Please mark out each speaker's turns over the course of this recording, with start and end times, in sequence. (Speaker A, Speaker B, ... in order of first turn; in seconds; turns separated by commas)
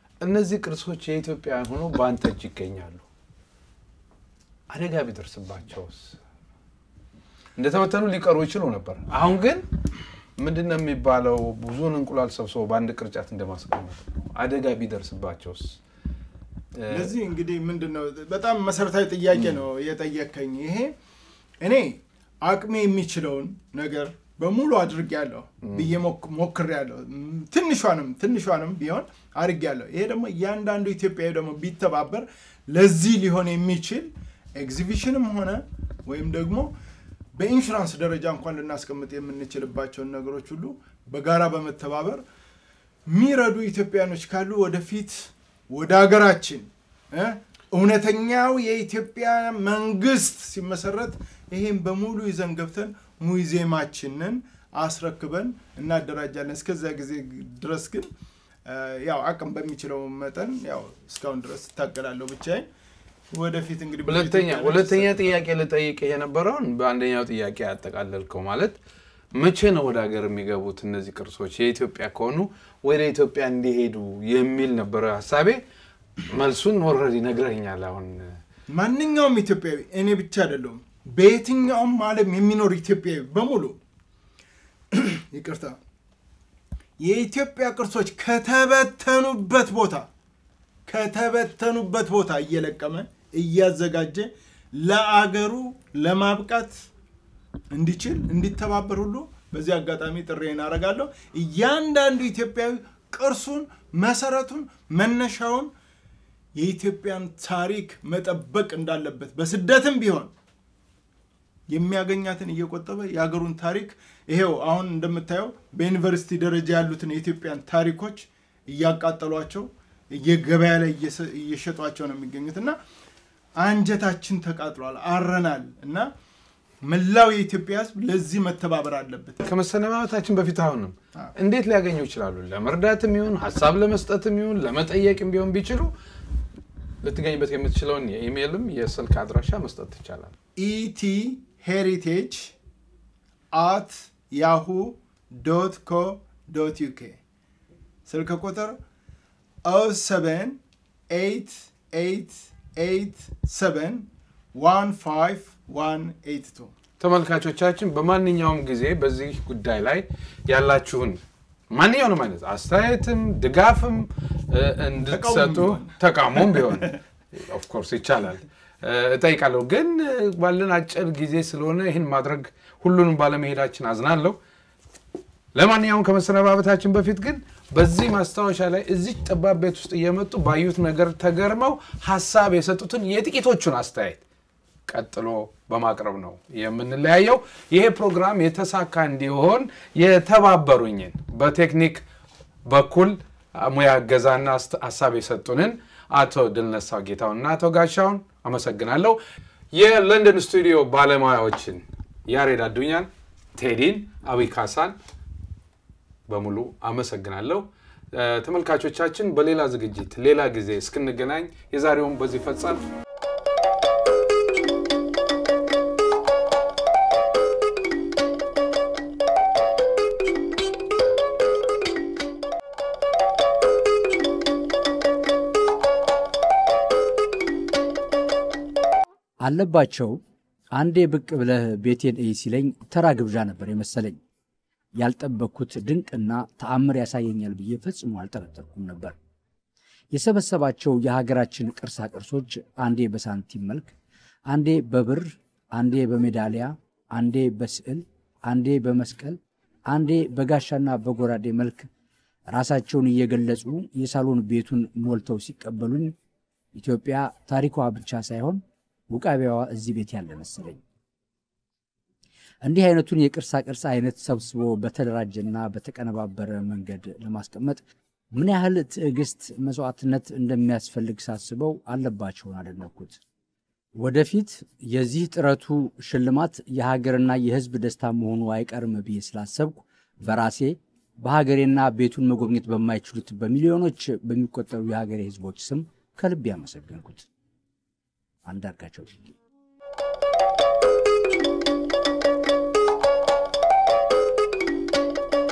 Speaker A: 0.2-3.0, Speaker A: 4.7-6.2, Speaker A: 7.5-9.6, Speaker A: 10.4-15.8, Speaker A: 16.7-17.1, Speaker B: 16.9-20.9, Speaker B: 21.6-36.7, Speaker A: 25.6-25.9, Speaker B: 37.4-42.2, Speaker B: 43.1-58.1, Speaker B: 58.7-62.7, Speaker B: 63.3-65.3, Speaker A: 64.0-68.8, Speaker A: 69.3-75.6, Speaker A: 76.3-78.4, Speaker B: 78.7-83.8, Speaker B: 84.9-85.8, Speaker B: 87.0-90.1, Speaker B: 90.9-96.7, Speaker B: 97.7-105.7, Speaker B: 106.5-110.3, Speaker B: 111.7-122.8, Speaker B: 123.6-126.1, Speaker B: 126.8-129.4, Speaker A: 129.4-135.9, Speaker A: 137.0-140.3, Speaker B: 140.6-142.5, Speaker B: 143.5-147.2, Speaker B: 148.1-148.8, Speaker B: 149.6-150.6, Speaker B: 151.1-156.7, Speaker A: 157.0-174.4, Speaker B: 165.1-166.9, Speaker A: 175.5-184.2, Speaker A: 184.9-192.0, Speaker A: 192.7-199.2, Speaker A: 199.7-204.9, Speaker A: 206.3-212.8, Speaker C: 229.4-230.2, Speaker C: 230.7-234.2, Speaker C: 234.9-239.1, Speaker C: 240.1-243.9, Speaker C: 244.5-249.4, Speaker C: 249.9-251.9, Speaker C: 252.5-256.1, Speaker C: 256.7-260.8, Speaker C: 262.6-273.2, Speaker C: 274.0-287.2, Speaker C: 288.4-289.3